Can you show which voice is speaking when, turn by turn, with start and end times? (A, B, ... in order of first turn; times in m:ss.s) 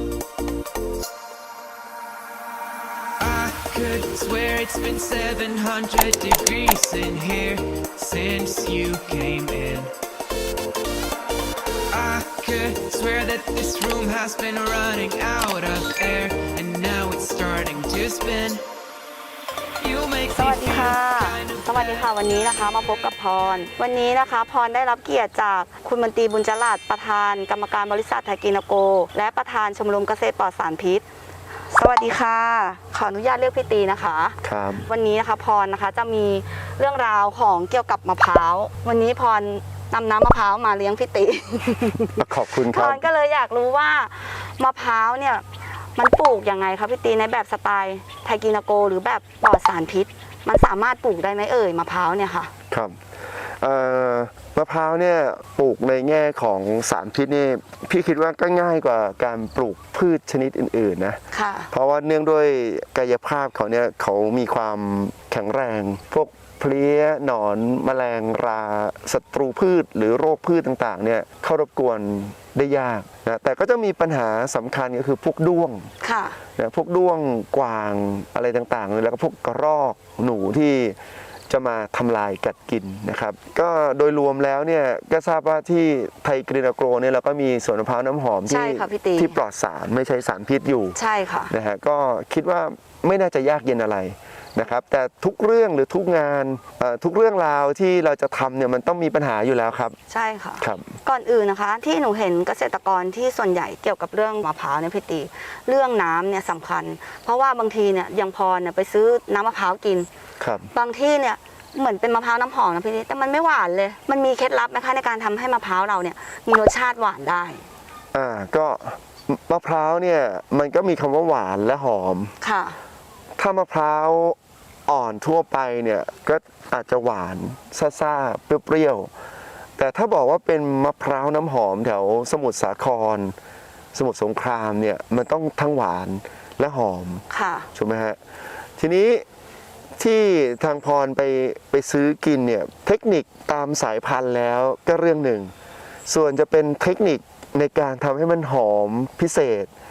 0:03.2-0:09.9 A
0:11.9-0:18.6 A
0:19.8-0:22.5 A
0:20.3-0:31.0 B
0:31.7-0:52.5 B
0:34.4-0:34.9 C
0:42.2-0:43.0 C
0:52.7-0:53.0 C
0:53.6-1:01.2 C
1:01.3-1:01.7 B
1:01.7-1:15.9 C
1:16.0-1:16.4 B
1:16.6-1:21.0 C
1:21.5-1:31.0 C
1:28.5-1:29.4 B
1:30.9-1:31.5 B
1:31.5-1:40.0 C
1:40.1-1:50.1 B
1:40.6-1:40.9 C
1:50.4-1:50.7 C
1:50.7-1:57.7 B
1:58.1-2:02.3 C
2:02.4-2:02.8 B
2:03.4-2:09.1 C
2:09.8-2:13.3 C
2:13.9-2:18.2 C
2:17.3-2:17.7 B
2:18.8-2:19.2 C
2:20.0-2:25.5 C
2:26.1-2:29.7 C